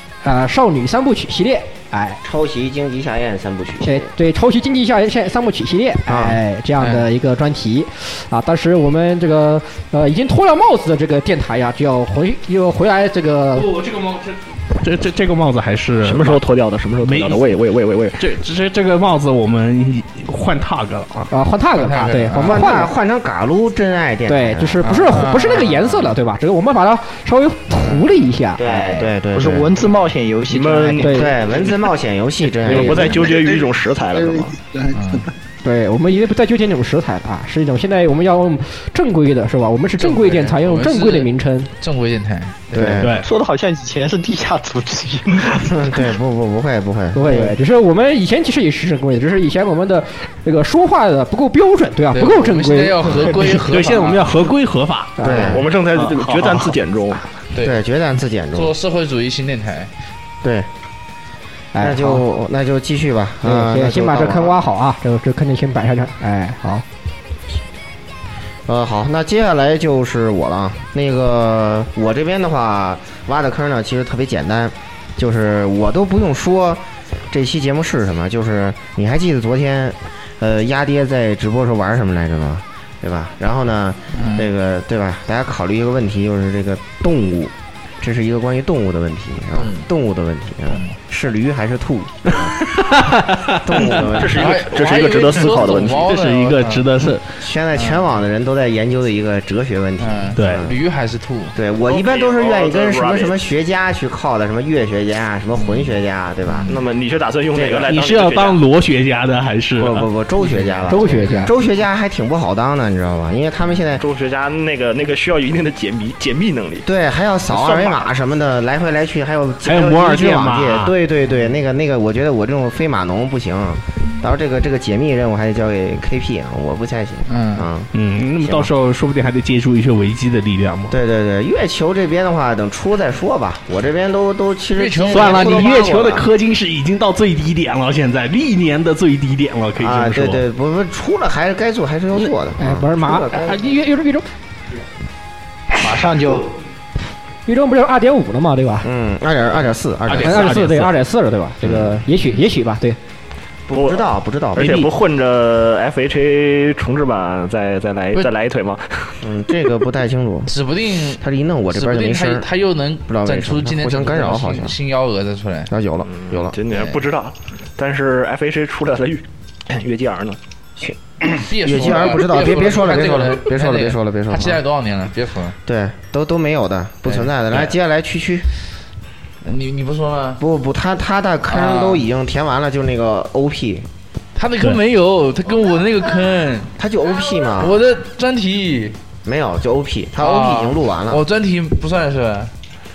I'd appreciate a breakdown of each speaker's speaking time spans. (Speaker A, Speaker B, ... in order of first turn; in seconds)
Speaker A: 0.2-2.2, 3.8-13.7, 21.3-22.9, 24.3-29.1, 31.0-31.3, 35.6-41.7, 47.1-53.4, 55.2-55.6, 61.7-62.2, 63.4-66.8, 110.9-111.5, 142.6-144.2, 147.5-148.9, 150.1-153.0
Speaker B: 2.2-4.1, 6.1-6.4, 22.3-24.8, 28.6-29.7, 31.1-33.2, 42.7-43.2, 45.7-47.6, 55.2-55.6, 57.6-58.7, 60.4-60.7, 61.8-64.6, 68.7-92.6, 93.6-94.6, 97.4-100.8, 101.6-106.7, 107.5-107.9, 109.8-114.0, 116.8-127.9, 128.4-128.7, 130.9-136.3, 139.8-143.6, 148.8-150.5, 151.6-152.0, 153.7-154.9, 159.2-160.6, 161.1-162.5, 163.1-164.8, 165.7-166.6, 170.8-174.6, 175.7-178.5, 180.4-183.9, 186.8-187.8, 189.2-191.2
Speaker C: 6.8-7.1, 21.8-22.3, 24.8-26.1, 34.9-35.3, 40.0-43.0, 52.1-54.2, 58.6-59.9, 84.2-84.5, 89.6-89.9, 94.4-97.1, 97.7-98.0, 100.0-101.5, 106.5-106.8, 127.3-127.7, 134.8-135.7, 160.5-165.7, 171.5-175.6, 177.1-177.7, 179.4-180.4, 181.5-182.0, 184.4-186.7, 187.6-188.9, 190.2-192.5
Speaker D: 13.5-16.4, 17.0-17.4, 18.2-21.3, 53.5-55.3, 92.4-93.6, 95.9-97.2, 100.4-100.7, 107.9-110.1, 119.6-120.9, 127.9-130.9, 135.1-140.4, 150.1-150.9
Speaker E: 16.0-18.2, 30.5-31.8, 32.6-34.6, 55.4-57.2, 94.1-96.1, 101.8-103.4, 106.7-108.6, 114.0-116.9, 117.5-118.1, 153.7-159.2, 166.0-170.4
Speaker F: 29.3-31.1, 43.2-45.8, 145.8-146.5
Speaker G: 33.2-35.2